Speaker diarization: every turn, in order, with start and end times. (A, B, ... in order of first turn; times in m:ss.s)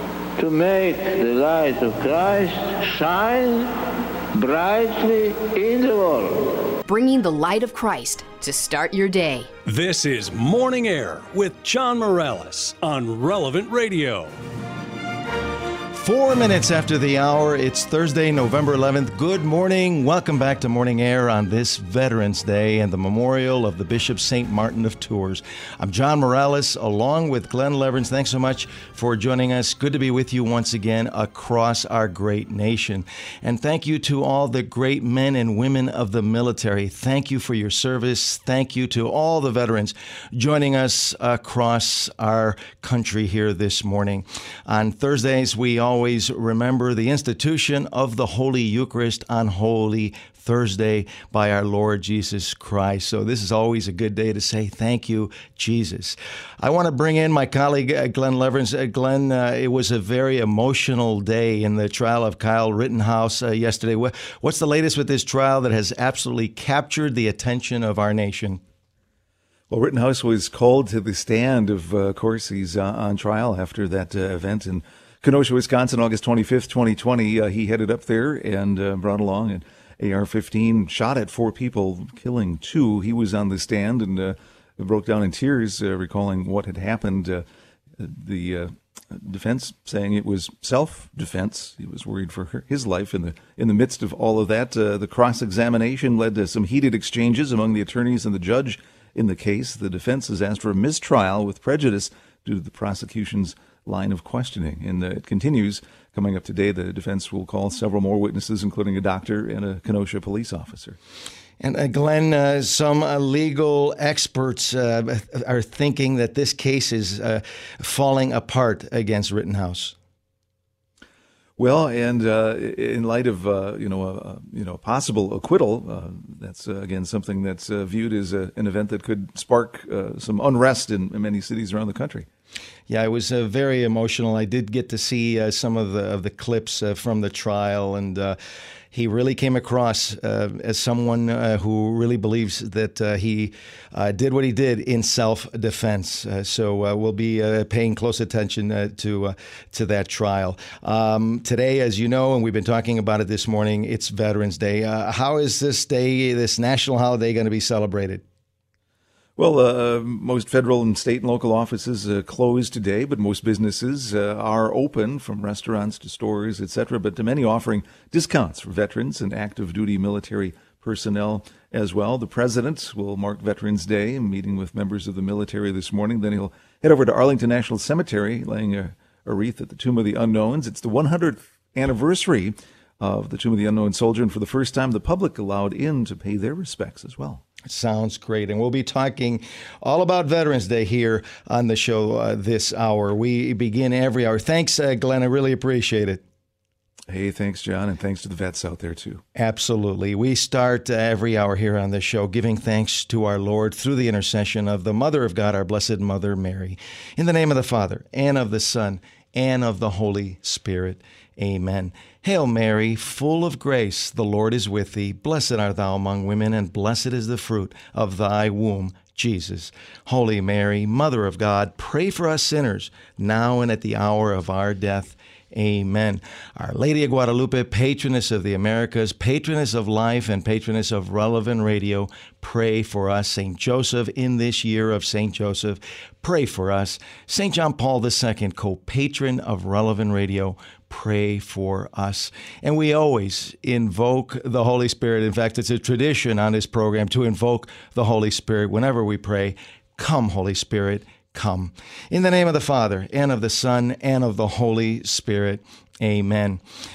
0:00.4-0:03.7 A
0:04.4-0:06.5 A
0:06.8-0:09.5 B
0:09.6-0:14.3 C
0:15.9-1:08.6 D
1:09.7-1:27.4 E
1:28.0-1:51.0 E
1:51.6-1:59.9 D
2:01.6-2:12.3 E
2:12.9-2:18.4 D
2:18.9-2:38.2 D
2:39.4-3:07.4 E
3:07.6-3:16.2 D
3:17.1-3:19.2 E
3:19.4-4:16.6 D